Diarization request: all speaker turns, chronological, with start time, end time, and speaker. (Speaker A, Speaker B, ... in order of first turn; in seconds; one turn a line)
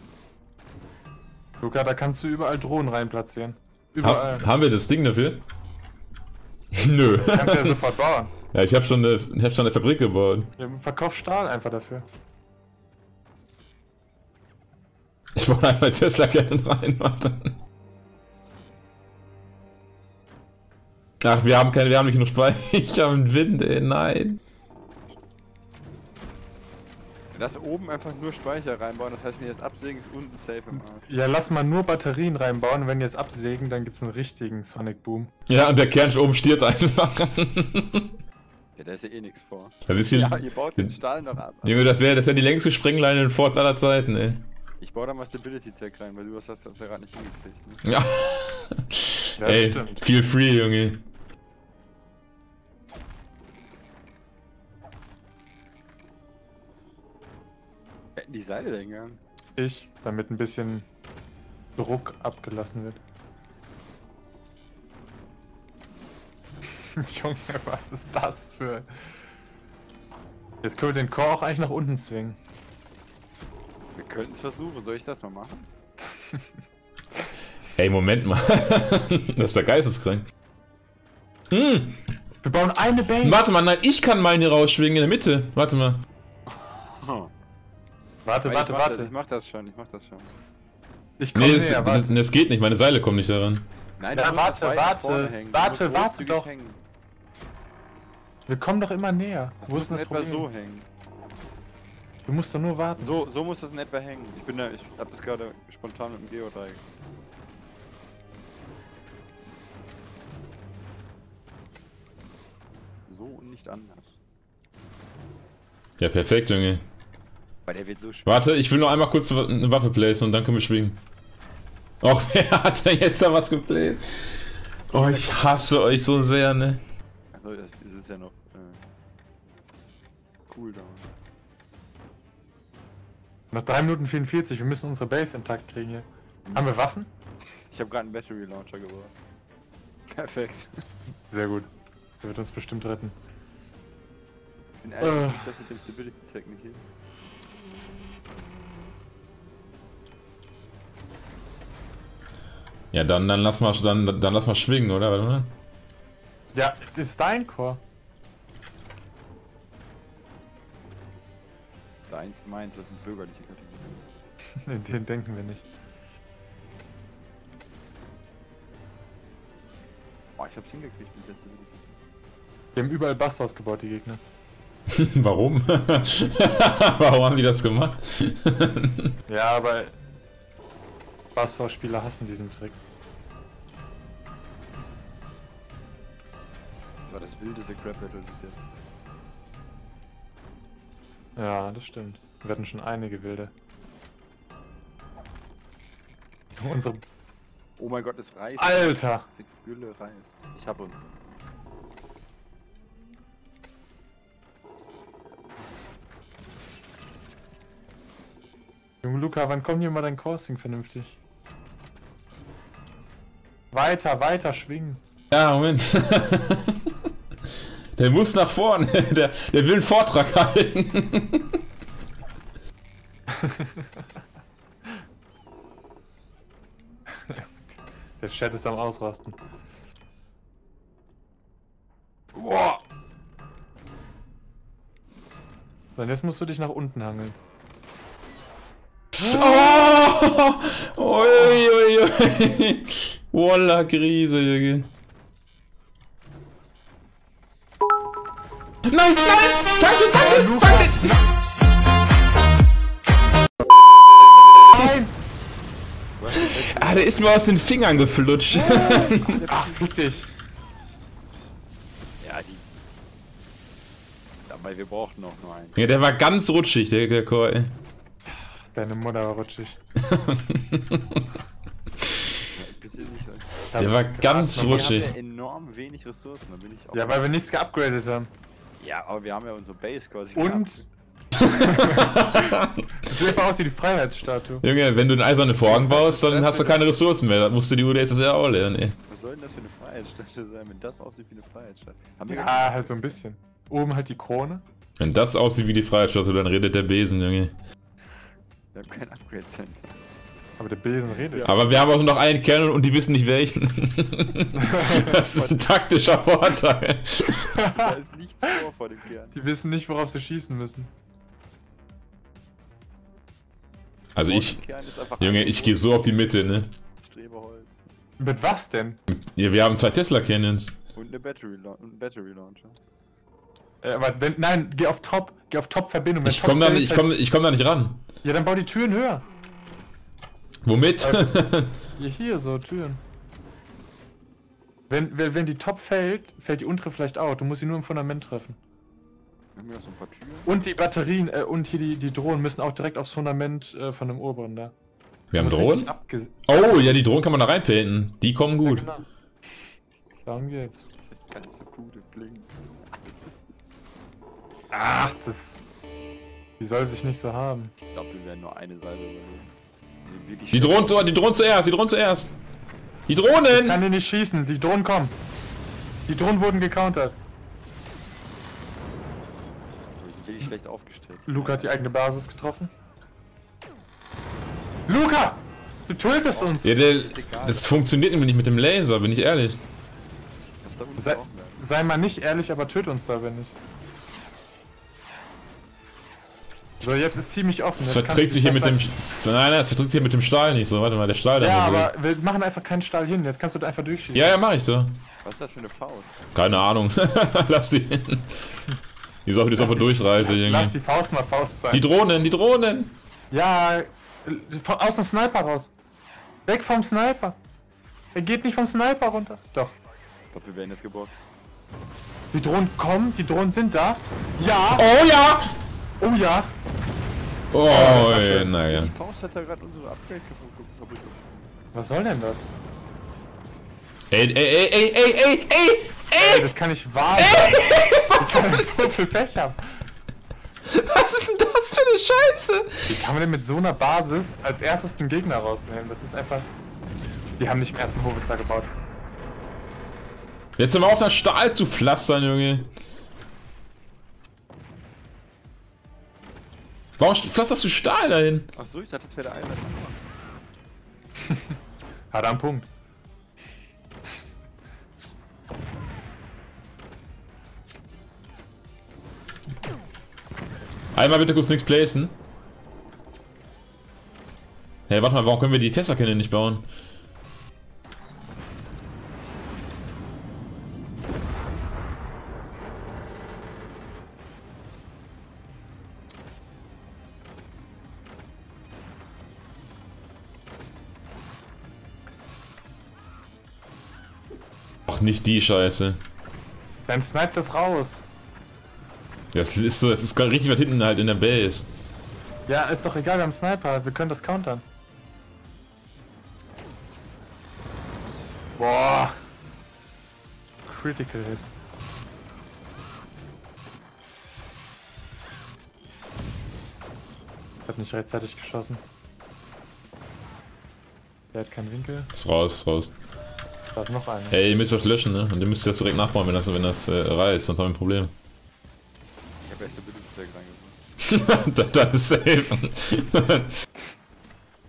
Speaker A: 1.6-4.5
Speaker B: 4.0-5.4
Speaker B: 6.8-7.8
Speaker A: 7.2-8.3
Speaker B: 8.5-10.5
Speaker A: 10.6-12.1
Speaker B: 15.4-17.6
Speaker B: 21.2-24.4
Speaker C: 27.3-31.1
Speaker A: 31.1-35.3
Speaker B: 35.5-38.1
Speaker C: 38.8-41.9
Speaker B: 39.9-40.9
Speaker B: 41.6-44.5
Speaker C: 44.8-47.8
Speaker B: 47.8-51.0
Speaker A: 49.4-50.0
Speaker C: 58.2-59.2
Speaker A: 59.6-60.9
Speaker A: 61.8-63.0
Speaker A: 67.0-68.9
Speaker A: 70.6-72.4
Speaker C: 74.0-75.7
Speaker B: 77.8-80.2
Speaker B: 81.5-81.9
Speaker A: 82.4-83.5
Speaker B: 83.2-86.0
Speaker C: 86.5-87.3
Speaker A: 88.2-89.1
Speaker C: 88.4-90.3
Speaker A: 91.2-92.1
Speaker B: 91.3-93.7
Speaker C: 94.0-96.8
Speaker A: 94.1-96.5
Speaker A: 98.5-100.5
Speaker C: 99.6-100.9
Speaker A: 102.3-103.2
Speaker C: 103.0-106.8
Speaker C: 113.1-114.2
Speaker B: 116.0-116.8
Speaker C: 117.7-118.4
Speaker B: 118.3-121.0
Speaker B: 122.0-124.0
Speaker C: 124.9-126.3
Speaker B: 124.9-126.8
Speaker C: 127.3-128.8
Speaker C: 130.5-131.1
Speaker A: 133.5-137.1
Speaker C: 136.4-136.8
Speaker C: 137.7-139.1
Speaker C: 140.1-140.7
Speaker A: 141.3-141.7
Speaker A: 142.2-143.2
Speaker C: 144.8-146.8
Speaker A: 145.0-145.5
Speaker B: 152.9-155.5
Speaker A: 156.5-157.8
Speaker C: 162.1-164.0
Speaker A: 164.6-165.7
Speaker C: 170.4-172.0
Speaker A: 172.7-174.2
Speaker B: 174.9-179.1
Speaker A: 179.3-180.0
Speaker A: 181.3-182.8
Speaker C: 187.1-188.7
Speaker A: 191.4-193.5
Speaker A: 196.6-197.0
Speaker C: 197.8-201.1
Speaker A: 198.6-199.3
Speaker A: 209.0-211.2
Speaker A: 213.7-215.0
Speaker B: 215.3-216.8
Speaker B: 218.0-221.6
Speaker A: 223.3-223.9
Speaker A: 227.2-227.5
Speaker A: 228.2-229.4
Speaker A: 232.3-232.8
Speaker A: 236.0-237.4
Speaker B: 239.2-244.9
Speaker B: 248.9-251.2
Speaker A: 250.1-251.1
Speaker A: 254.7-255.1
Speaker C: 256.2-260.1
Speaker B: 256.4-259.5
Speaker A: 259.5-260.3
Speaker C: 262.2-262.6
Speaker C: 264.5-265.8
Speaker B: 265.8-267.8
Speaker A: 268.7-269.8
Speaker B: 270.1-271.2
Speaker C: 272.5-273.7
Speaker A: 273.7-275.0
Speaker B: 273.8-275.1
Speaker C: 274.5-277.4
Speaker A: 276.9-278.3
Speaker C: 278.8-280.9
Speaker A: 280.4-280.8
Speaker B: 281.4-283.1
Speaker A: 281.4-282.4
Speaker A: 283.0-284.6
Speaker B: 284.6-289.0
Speaker C: 285.6-286.8
Speaker C: 289.1-293.2
Speaker A: 292.3-294.6
Speaker B: 295.0-297.6
Speaker C: 298.7-300.0
Speaker A: 300.6-301.5
Speaker C: 301.2-302.0
Speaker B: 301.4-307.5
Speaker A: 304.6-305.0
Speaker C: 304.8-305.7
Speaker A: 307.5-307.9
Speaker C: 307.7-309.4
Speaker A: 309.3-310.9
Speaker B: 314.2-314.6
Speaker C: 314.2-316.2
Speaker B: 315.2-316.7
Speaker C: 317.0-317.9
Speaker A: 318.2-319.0
Speaker B: 319.1-320.8
Speaker C: 320.9-322.8
Speaker A: 323.8-327.1
Speaker B: 326.2-328.0
Speaker A: 328.2-329.2
Speaker B: 330.6-331.7
Speaker A: 331.0-331.3
Speaker A: 332.0-333.0
Speaker A: 334.9-338.6
Speaker C: 339.6-340.5
Speaker A: 340.4-344.7
Speaker B: 345.3-345.9
Speaker A: 345.4-347.0
Speaker B: 346.5-348.9
Speaker A: 348.6-349.1
Speaker A: 350.2-350.9
Speaker C: 351.1-353.3
Speaker A: 354.7-355.6
Speaker A: 356.6-357.7
Speaker C: 357.9-359.5
Speaker C: 360.0-361.1
Speaker B: 360.5-362.4
Speaker B: 363.1-363.8
Speaker A: 363.5-365.2
Speaker A: 366.1-367.2
Speaker C: 370.0-371.9
Speaker A: 371.3-372.7
Speaker A: 374.9-376.8
Speaker C: 376.2-378.0
Speaker B: 376.6-379.6
Speaker C: 380.6-381.6
Speaker A: 381.0-383.6
Speaker A: 386.8-388.8
Speaker B: 387.8-391.9
Speaker A: 391.4-394.4
Speaker B: 394.1-394.9
Speaker C: 395.2-396.1
Speaker B: 396.4-398.3
Speaker B: 399.3-400.8
Speaker A: 399.6-401.9
Speaker B: 401.7-403.0
Speaker A: 403.3-405.7
Speaker A: 406.5-407.4
Speaker A: 408.1-409.8
Speaker C: 410.3-411.3
Speaker A: 412.3-414.9
Speaker B: 414.8-415.4
Speaker A: 416.0-416.5
Speaker B: 417.5-418.9
Speaker A: 417.7-418.3
Speaker C: 417.7-421.5
Speaker A: 421.7-422.5
Speaker B: 424.1-426.5
Speaker A: 426.2-429.6
Speaker B: 427.2-428.6
Speaker B: 430.7-433.0
Speaker A: 432.9-436.5
Speaker A: 437.4-438.7
Speaker B: 440.6-442.7
Speaker B: 447.0-448.5
Speaker C: 448.6-450.0
Speaker A: 452.1-452.7
Speaker B: 460.9-462.2
Speaker B: 464.9-466.7
Speaker B: 484.9-486.0
Speaker A: 486.9-488.1
Speaker B: 489.3-491.7
Speaker A: 492.5-494.6
Speaker A: 498.6-499.1
Speaker A: 500.6-501.5
Speaker A: 507.7-508.8
Speaker A: 511.3-512.1
Speaker B: 512.1-512.9
Speaker A: 513.8-514.4
Speaker B: 514.3-518.1
Speaker C: 519.4-520.8
Speaker B: 521.0-523.5